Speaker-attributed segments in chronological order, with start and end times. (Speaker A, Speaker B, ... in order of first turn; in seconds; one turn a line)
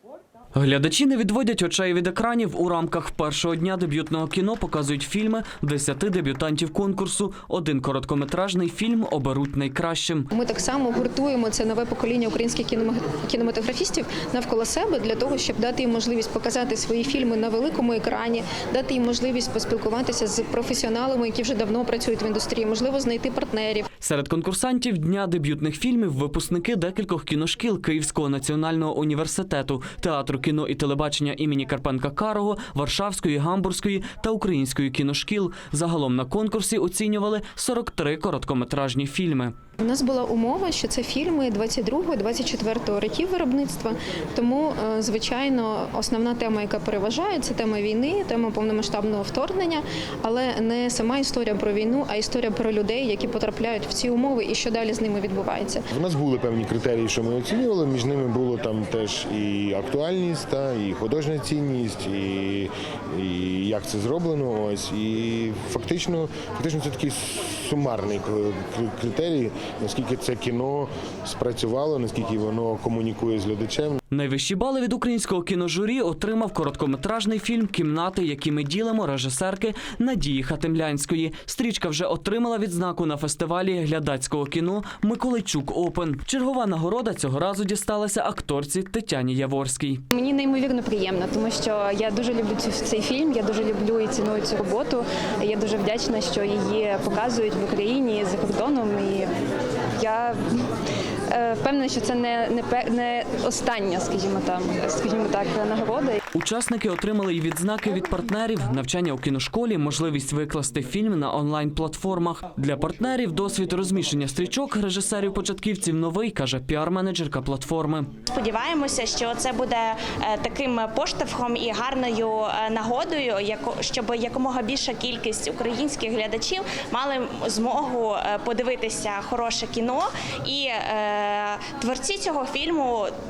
Speaker A: 0.6-10.3
Speaker B: 10.3-23.9
Speaker A: 24.0-39.5
Speaker B: 39.8-55.8
Speaker C: 55.9-74.0
Speaker A: 74.1-90.0
Speaker D: 90.1-99.3
Speaker D: 100.0-100.4
Speaker D: 101.3-106.2
Speaker A: 106.3-118.1
Speaker E: 118.3-133.1